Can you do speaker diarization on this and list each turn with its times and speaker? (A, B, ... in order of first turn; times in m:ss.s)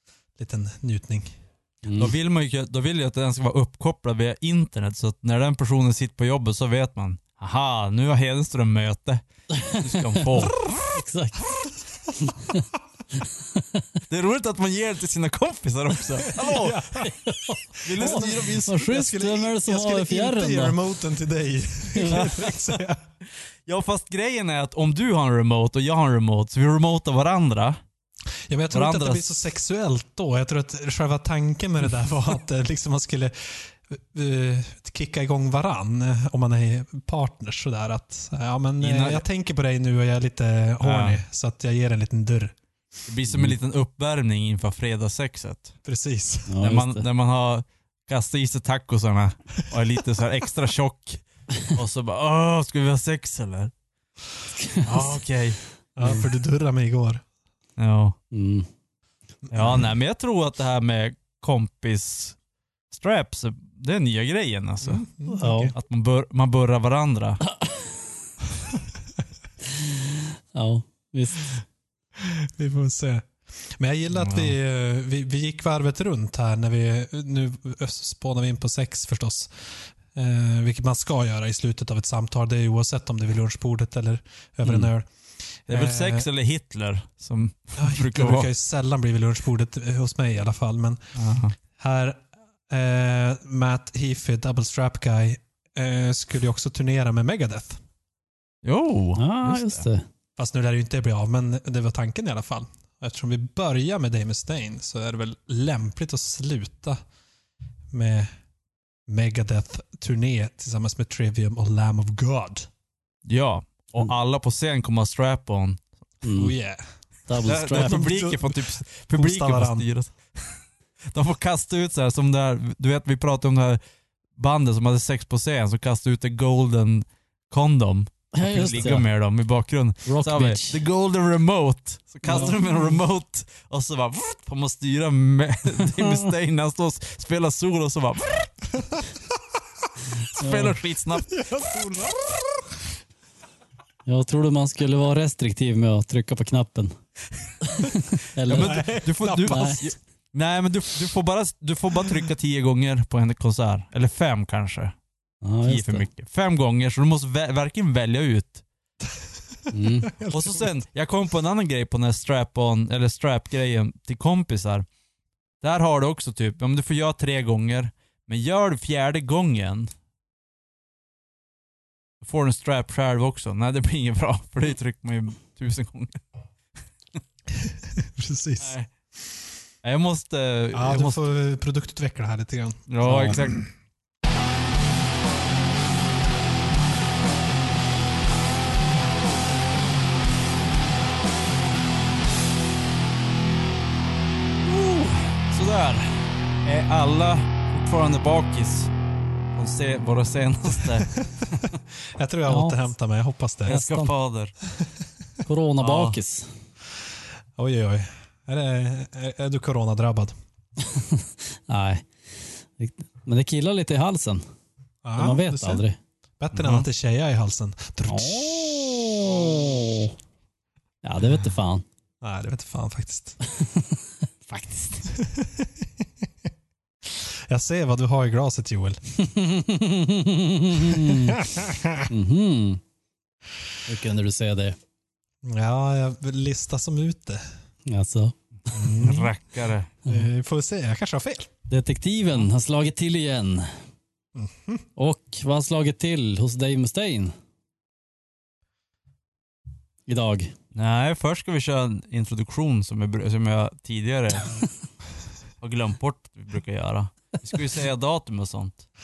0:00.4-0:01.4 A
0:01.8-0:02.1 B
0:02.0-0:10.7 C
0:09.5-0:11.4 B
0:12.2-0:12.6 B
0:13.4-0:13.9 B
0:14.1-0:16.8 C
0:16.4-0:17.1 A
0:17.0-0:20.8 B
0:17.8-0:18.9 C
0:17.9-0:23.0 A
0:21.9-0:22.4 B
0:22.1-0:22.5 C
0:23.6-0:27.8 C
0:28.5-0:42.5 A
0:28.7-0:29.3 C
0:38.8-0:39.2 C
0:40.8-0:41.2 C
0:43.1-0:45.7 C
0:43.3-0:43.6 B
0:45.8-0:46.6 A
0:46.5-0:47.0 B
0:46.6-0:53.7 C
0:54.6-0:55.1 B
0:54.8-0:55.6 C
0:56.0-0:57.2 A
0:57.8-0:58.2 C
0:58.3-0:58.7 B
0:59.5-0:59.8 A
0:59.5-1:02.3 C
1:02.9-1:05.1 C
1:04.8-1:05.7 A
1:05.4-1:05.7 B
1:05.7-1:07.4 C
1:07.6-1:07.9 B
1:09.8-1:11.5 B
1:12.2-1:26.3 A
1:14.1-1:14.5 C
1:25.7-1:28.5 C
1:27.8-1:31.0 A
1:31.2-1:31.6 C
1:31.8-1:37.8 A
1:38.6-1:39.8 C
1:39.2-1:40.0 B
1:40.4-1:47.0 A
1:47.9-1:48.3 A
1:49.1-1:52.7 A
1:53.2-1:55.8 C
1:56.2-1:56.5 B
1:56.3-1:56.8 A
1:57.3-1:58.0 B
1:57.4-1:59.9 A
1:57.4-2:00.6 C
2:01.1-2:03.8 C
2:04.4-2:18.7 C
2:08.3-2:09.1 B
2:10.0-2:10.8 B
2:12.3-2:12.6 B
2:20.4-2:20.7 B
2:20.4-2:21.3 C
2:21.2-2:22.6 A
2:24.0-2:27.0 B
2:27.6-2:29.8 B
2:28.5-2:34.9 C
2:28.5-2:29.7 A
2:35.4-2:36.1 B
2:35.6-2:38.6 C
2:39.6-2:40.7 A
2:39.7-2:40.1 B
2:40.3-2:44.8 C
2:45.6-2:49.9 C
2:52.2-2:56.2 C
2:57.6-2:58.7 A
2:58.6-2:58.9 C
2:59.8-3:01.2 C
3:00.7-3:03.5 A
3:02.9-3:03.6 C
3:03.0-3:03.4 B
3:14.6-3:18.9 C
3:19.5-3:21.6 C
3:20.9-3:23.8 A
3:22.5-3:22.9 B
3:23.6-3:24.5 C
3:23.7-3:24.1 B
3:25.4-3:26.5 B
3:25.8-3:26.2 C
3:27.6-3:30.3 A
3:30.8-3:32.1 B
3:32.8-3:34.4 B
3:35.0-3:35.8 A
3:35.2-3:36.0 B
3:36.4-3:38.7 A
3:36.5-3:36.8 C
3:38.1-3:40.1 B
3:39.2-3:39.6 A
3:41.0-3:41.8 B
3:42.2-3:43.4 A
3:43.5-3:44.0 B
3:44.5-3:45.0 B
3:45.1-3:46.0 A
3:47.0-3:49.0 A
3:49.2-3:51.4 B
3:50.9-3:52.1 A
3:52.1-3:52.8 B
3:53.8-3:54.8 B
3:55.4-3:57.4 A
3:57.8-3:59.0 B
3:58.7-3:59.3 A
3:59.0-3:59.9 C
4:00.0-4:01.5 A
4:01.7-4:03.7 B
4:04.4-4:04.8 A
4:05.0-4:07.3 B
4:10.1-4:10.5 B
4:10.7-4:14.5 C
4:15.6-4:18.8 C